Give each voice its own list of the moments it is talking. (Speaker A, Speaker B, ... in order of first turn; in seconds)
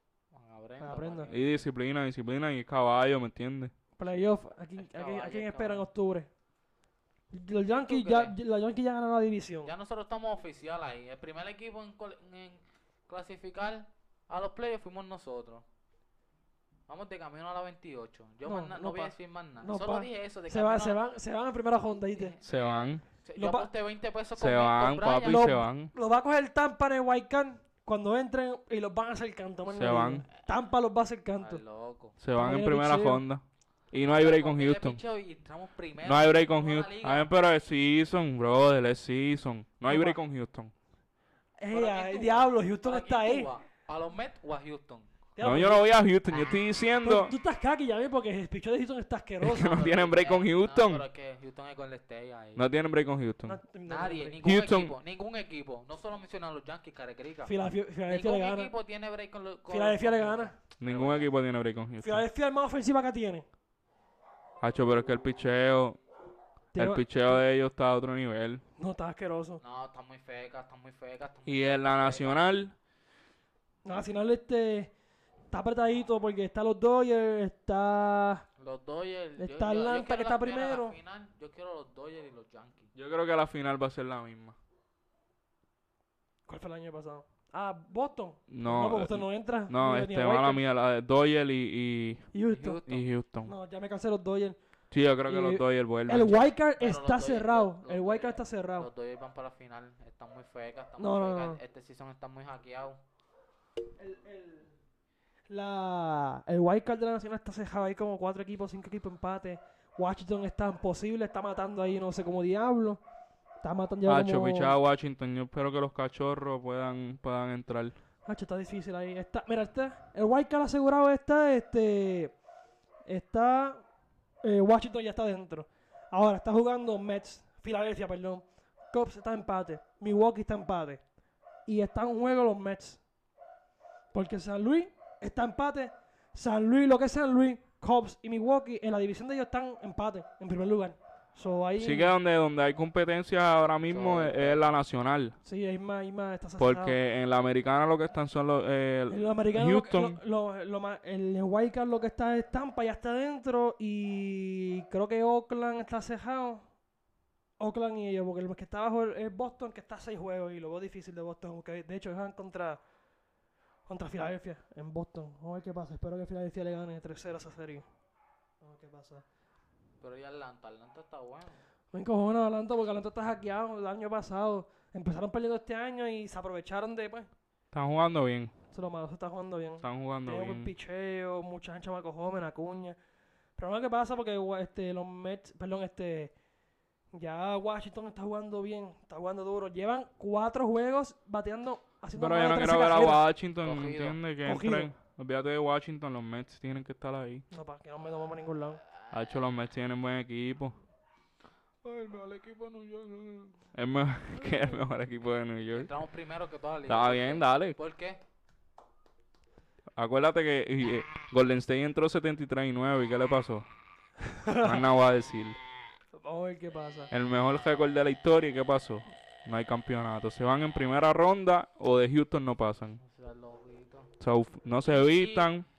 Speaker A: 0.3-1.6, 4.8-5.9, 7.7-8.3, 9.6-15.6, 16.9-21.0, 22.1-25.6, 31.4-32.2, 34.0-37.3, 41.7-45.1, 46.3-46.6, 49.6-52.6, 53.9-57.5, 58.1-61.3, 69.6-72.4, 78.6-82.9, 92.5-93.1, 96.7-103.0, 143.9-144.6, 170.0-171.6, 193.6-194.2, 198.9-199.5, 201.8-203.5, 204.4-204.7, 205.7-208.2, 223.0-224.1, 224.9-225.5
Speaker B: 0.8-1.3, 4.0-6.3, 7.3-9.7, 18.4-22.3, 23.4-23.7, 25.2-31.6, 32.4-33.2, 39.9-40.2, 41.6-43.5, 45.4-45.9, 47.0-49.8, 53.5-54.4, 57.5-58.7, 59.7-60.5, 62.0-63.5, 66.7-67.4, 68.8-69.6, 73.8-74.9, 75.5-78.5, 79.4-81.0, 86.5-90.6, 92.3-92.8, 93.5-94.6, 95.3-98.9, 101.0-101.6, 104.0-104.7, 105.5-113.0, 113.6-114.8, 118.3-122.4, 123.1-123.8, 124.4-131.0, 131.7-133.0, 134.1-142.2, 145.4-147.0, 149.1-156.7, 157.6-162.8, 163.9-167.9, 168.6-169.2, 171.9-177.3, 178.7-183.0, 183.6-186.3, 187.2-193.3, 194.4-194.9, 197.5-198.8, 214.4-214.8, 216.2-217.1
Speaker C: 1.3-3.7, 22.4-23.0, 24.4-25.9, 29.7-30.2, 32.2-35.0, 36.0-40.7, 45.4-47.3, 49.4-51.0, 52.6-53.6, 54.4-54.9, 60.8-62.2, 64.6-66.0, 66.8-68.6, 71.5-72.7, 83.0-84.6, 88.5-92.3, 92.8-93.5, 94.9-96.3, 114.1-118.0, 141.8-145.4, 146.6-150.2, 177.7-178.5, 179.8-180.7, 192.2-197.4, 199.1-200.8, 203.7-205.9, 206.9-207.8, 210.0-213.7, 214.6-215.6, 217.1-223.0, 224.2-225.7